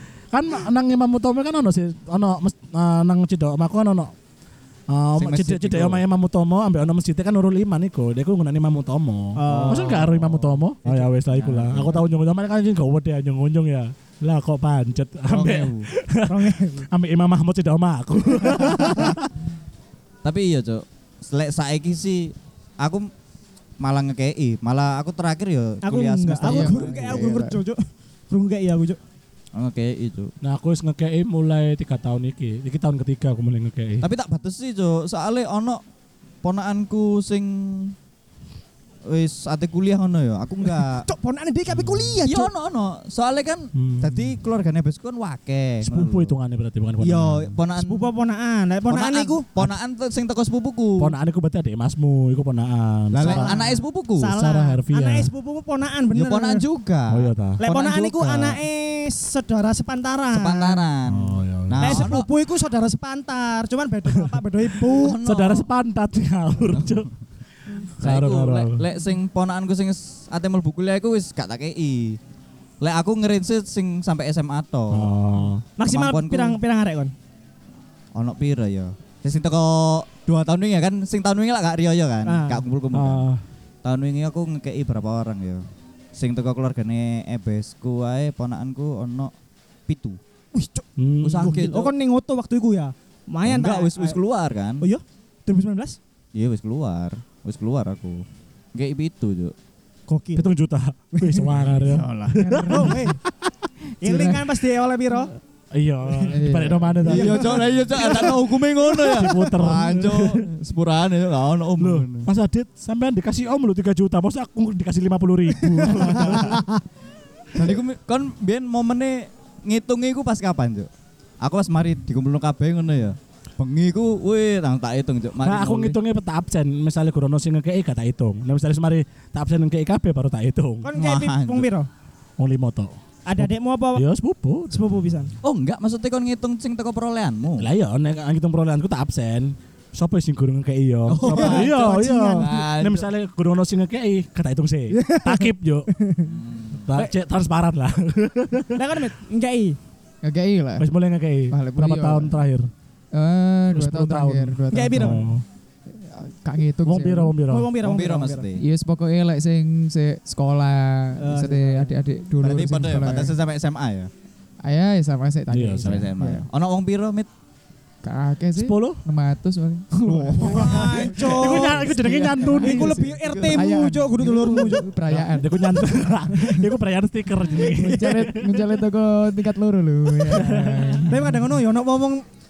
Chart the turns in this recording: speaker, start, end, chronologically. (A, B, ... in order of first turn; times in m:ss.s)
0:00.3-0:04.1 A
0:04.9-0:19.2 A
0:05.2-0:06.0 B
0:09.4-0:10.0 C
0:09.5-0:12.0 B
0:15.3-0:15.9 B
0:16.3-0:16.9 C
0:20.2-0:23.1 B
0:23.8-0:27.2 B
0:25.8-0:29.0 C
0:26.4-0:27.6 D
0:29.6-0:30.3 B
0:30.4-0:34.0 A
0:34.0-0:35.8 B
0:36.4-0:38.0 B
0:39.1-0:41.1 B
0:40.8-0:42.5 C
0:41.7-0:42.2 A
0:42.3-0:46.3 B
0:43.7-0:44.4 A
0:45.8-0:47.5 A
0:47.0-0:48.1 B
0:47.8-0:49.7 C
0:48.9-0:51.1 B
0:51.0-0:53.5 A
0:53.1-0:54.3 B
0:53.2-0:56.6 C
0:54.4-0:55.3 A
0:56.1-0:58.6 B
0:57.1-0:57.6 A
0:57.6-1:00.8 C
1:00.3-1:02.3 B
1:01.1-1:02.1 A
1:01.8-1:05.2 C
1:04.8-1:05.7 B
1:05.2-1:07.1 A
1:06.6-1:07.0 B
1:08.0-1:12.2 B
1:08.0-1:08.8 A
1:12.8-1:15.1 B
1:14.9-1:15.6 A
1:15.8-1:17.1 C
1:15.8-1:16.6 B
1:18.2-1:23.2 B
1:22.2-1:22.6 C
1:22.9-1:23.4 A
1:23.8-1:25.6 B
1:26.2-1:29.3 B
1:29.9-1:30.2 B
1:30.5-1:30.9 C
1:31.0-1:31.7 A
1:31.2-1:31.9 B
1:31.4-1:34.2 C
1:33.4-1:34.9 B
1:34.8-1:36.0 C
1:36.4-1:38.2 B
1:38.7-1:39.5 B
1:40.1-1:40.5 C
1:40.4-1:43.0 A
1:41.2-1:41.5 C
1:41.7-1:43.0 B
1:42.4-1:43.2 C
1:44.0-1:45.4 C
1:44.0-1:44.5 D
1:45.7-1:47.5 A
1:46.3-1:47.1 D
1:47.0-1:49.3 C
1:47.0-1:52.3 B
1:49.1-1:50.4 A
1:51.8-1:56.6 A
1:55.8-1:56.6 C
1:57.5-2:00.9 B
2:01.4-2:06.0 B
2:05.4-2:10.9 A
2:10.8-2:11.9 C
2:11.0-2:11.7 B
2:12.4-2:15.0 A
2:13.3-2:14.0 C
2:14.7-2:15.3 C
2:15.4-2:17.7 B
2:17.6-2:25.9 A
2:21.1-2:21.7 B
2:21.2-2:22.5 C
2:22.4-2:23.1 B
2:24.9-2:26.3 C
2:26.2-2:26.9 B
2:26.9-2:28.8 A
2:28.7-2:29.8 C
2:30.2-2:30.9 D
2:30.8-2:32.7 A
2:31.5-2:32.4 D
2:33.1-2:35.2 D
2:33.7-2:35.4 A
2:34.7-2:35.3 C
2:35.9-2:37.4 D
2:36.8-2:37.7 A
2:37.5-2:38.5 C
2:37.8-2:38.6 B
2:38.6-2:43.3 D
2:41.2-2:42.0 C
2:42.4-2:44.1 B
2:44.6-2:46.4 D
2:45.5-2:46.0 A
2:45.8-2:47.3 B
2:48.0-2:56.0 D
2:48.6-2:49.0 A
2:50.3-2:51.2 B
2:50.4-2:51.9 C
2:51.2-2:53.0 A
2:52.5-2:54.9 C
2:53.2-2:53.6 B
2:55.1-2:58.7 A
2:56.3-2:56.7 C
2:57.6-3:01.4 D
3:00.2-3:01.1 A
3:01.1-3:02.2 C